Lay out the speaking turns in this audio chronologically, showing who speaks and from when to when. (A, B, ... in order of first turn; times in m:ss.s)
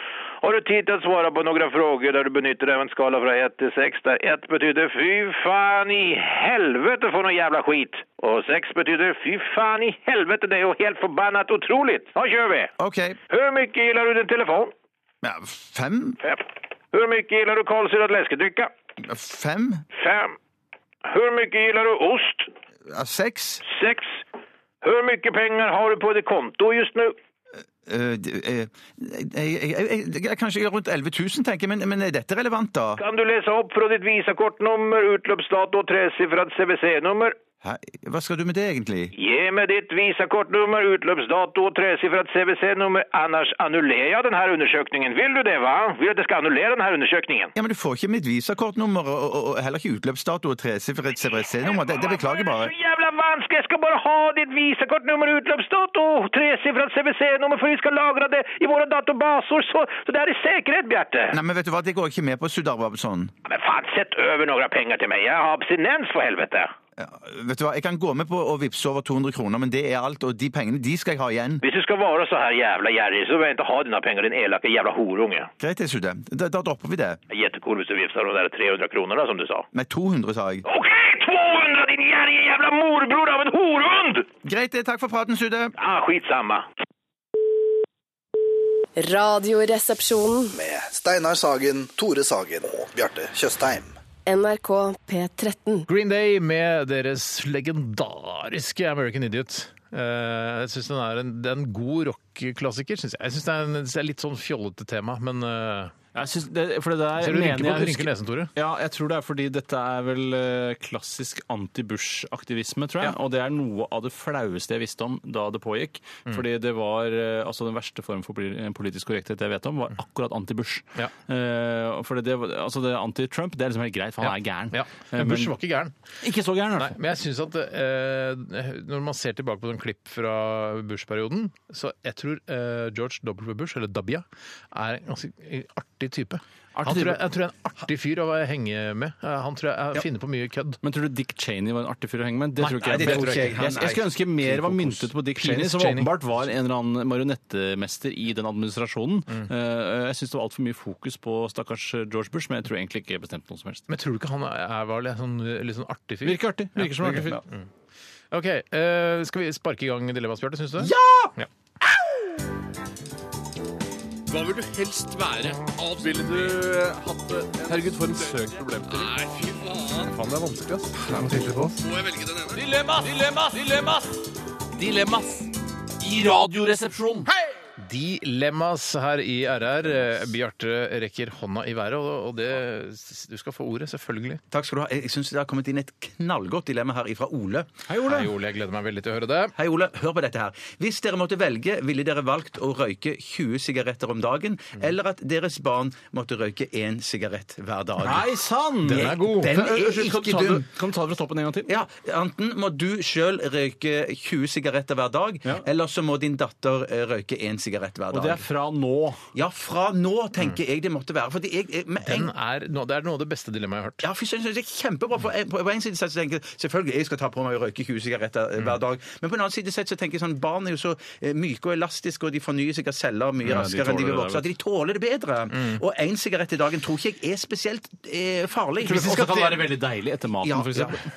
0:00.4-0:12.7 A
0:12.8-0:13.2 B
0:13.3-0:14.7 A
0:15.2-0:16.2 B
0:16.2-0:18.7 A
0:19.0-0:19.8 B
0:20.0-0:20.3 A
0:21.1-0:22.5 A
0:22.9-0:23.6 B
0:23.7-0:24.2 A
0:24.8-0:27.1 A
0:27.8-0:33.0 B
0:33.0-0:37.3 A
0:37.6-0:39.1 B
0:39.2-0:47.5 A
0:47.6-0:52.7 B
0:51.7-1:01.3 A
1:01.3-1:03.3 B
1:03.4-1:06.7 A
1:07.0-1:11.6 B
1:11.6-1:15.5 A
1:15.6-1:17.2 B
1:17.3-1:19.6 A
1:19.7-1:20.6 B
1:20.6-1:24.2 A
1:24.4-1:25.7 B
1:25.8-1:26.6 A
1:29.0-1:30.5 C
1:30.5-1:33.9 D
1:34.2-1:35.8 C
1:35.9-1:45.9 E
1:46.1-2:05.5 F
1:47.2-1:48.5 E
2:04.2-2:05.9 E
2:06.2-2:07.0 F
2:06.8-2:20.8 E
2:16.8-2:17.2 F
2:20.8-2:33.9 F
2:22.6-2:23.6 E
2:22.8-2:25.1 B
2:25.4-2:26.1 E
2:33.9-2:37.6 E
2:36.2-2:37.4 F
2:37.1-2:37.4 B
2:38.3-2:41.5 E
2:40.8-2:41.3 B
2:44.3-2:54.0 G
2:54.8-2:55.0 G
2:56.0-2:56.8 G
2:57.8-3:04.4 E
3:04.5-3:07.7 B
3:07.9-3:08.3 F
3:08.0-3:09.5 E
3:09.6-3:18.3 B
3:18.0-3:21.7 F
3:18.8-3:19.6 E
3:18.9-3:20.7 B
3:21.7-3:28.4 B
3:28.1-3:29.2 F
3:29.3-3:32.3 B
3:32.0-3:34.0 E
3:34.0-3:49.7 B
3:43.4-3:44.4 F
3:48.8-3:51.0 F
3:50.4-3:51.0 B